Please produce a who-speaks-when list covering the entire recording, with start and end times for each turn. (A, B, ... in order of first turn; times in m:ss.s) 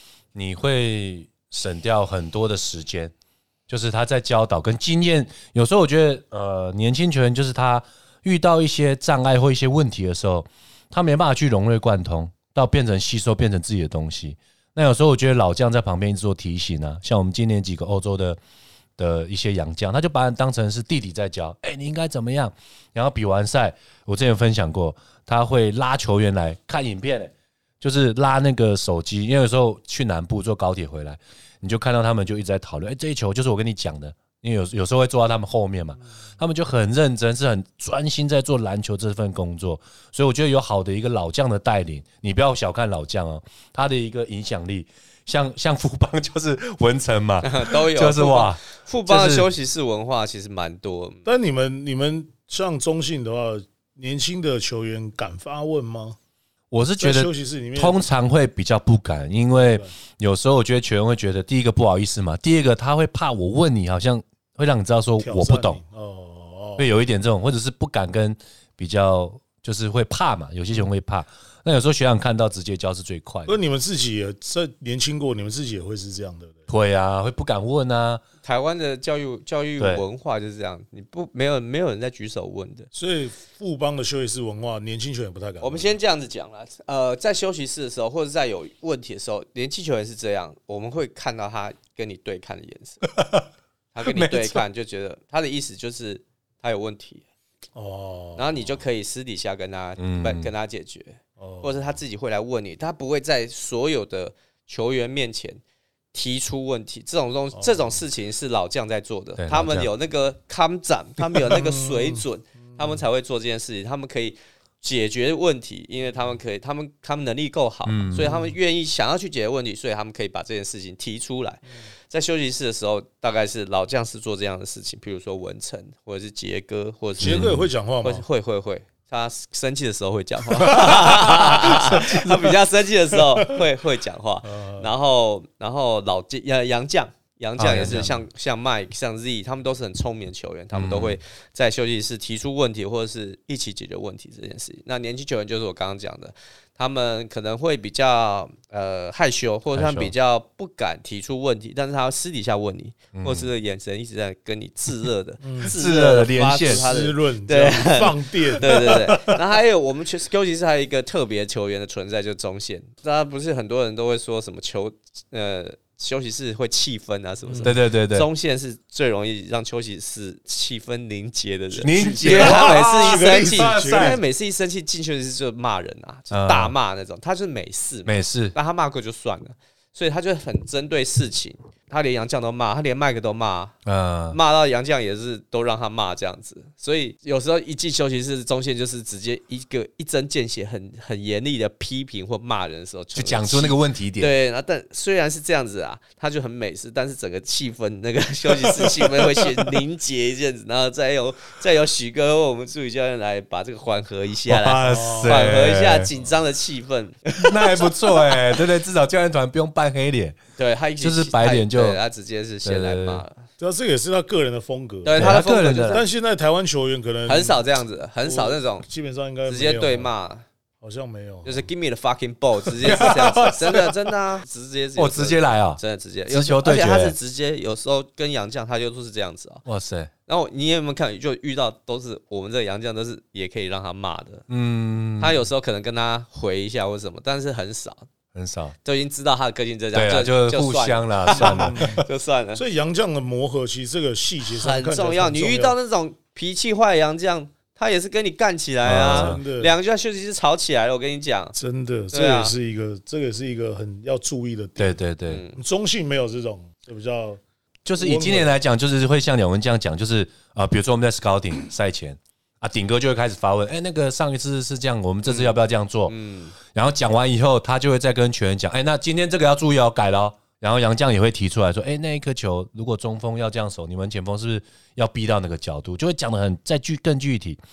0:00.3-0:03.1 A
0:03.7-0:18.4 A
0:19.0-0:49.5 A
0:47.4-0:51.2 B
0:51.2-0:56.2 C
0:56.7-1:05.8 A
0:57.0-0:58.0 C
0:59.5-0:59.9 C
1:05.2-1:06.9 C
1:06.8-1:13.6 A
1:13.4-1:16.7 C
1:16.7-1:18.2 A
1:18.4-1:22.9 B
1:22.9-1:25.9 C
1:25.6-1:33.0 B
1:33.1-1:33.5 A
1:33.9-1:37.2 B
1:34.0-1:34.6 A
1:37.7-1:38.8 C
1:38.4-1:45.6 B
1:40.0-1:40.5 A
1:41.4-1:41.9 C
1:46.1-2:07.5 B
1:47.5-1:48.0 C
1:49.4-1:49.9 A
1:51.5-1:53.0 C
1:57.8-1:58.2 A
1:58.2-1:58.5 C
2:07.2-2:07.7 A
2:07.2-2:08.2 C
2:08.0-3:03.7 B
2:10.6-2:12.5 A
2:10.7-2:11.4 C
2:14.4-2:14.9 C
2:17.6-2:18.2 A
2:20.7-2:21.2 A
2:29.7-2:30.1 A
2:33.1-2:33.5 A
2:35.4-2:35.8 C
2:35.7-2:36.8 A
2:36.6-2:39.4 C
2:47.5-2:47.7 C
2:47.6-2:48.3 A
2:51.8-2:54.2 A
2:51.9-2:54.2 C
2:56.3-2:56.7 A
2:58.0-2:58.5 A
3:03.8-3:04.4 A
3:04.3-3:28.4 B
3:13.1-3:14.3 A
3:24.5-3:26.1 A
3:24.8-3:25.6 C
3:27.4-3:30.4 A
3:30.6-3:33.4 B
3:31.0-3:32.0 A
3:32.6-3:33.2 A
3:33.6-3:37.6 C
3:35.0-3:36.0 B
3:35.2-3:36.0 A
3:37.3-3:38.8 B
3:38.2-3:40.1 C
3:39.4-3:40.4 B
3:40.8-3:41.7 C
3:41.4-3:49.6 B
3:42.8-3:44.0 A
3:45.0-3:47.2 A
3:49.6-3:50.1 A
3:50.3-3:54.4 B
3:54.5-3:55.4 A
3:55.2-3:58.1 B
3:58.3-3:58.8 A
3:58.8-4:02.6 B
3:59.9-4:02.0 A
4:01.3-4:05.7 C
4:04.5-4:11.5 B
4:08.8-4:09.4 A
4:09.0-4:09.7 C
4:11.5-4:15.0 C
4:12.1-4:12.5 B
4:14.8-4:15.4 A
4:15.3-4:15.6 B
4:15.5-4:17.4 C
4:17.8-4:26.1 A
4:18.0-4:18.5 C
4:25.2-4:25.5 B
4:26.1-4:26.6 B
4:26.6-4:37.6 A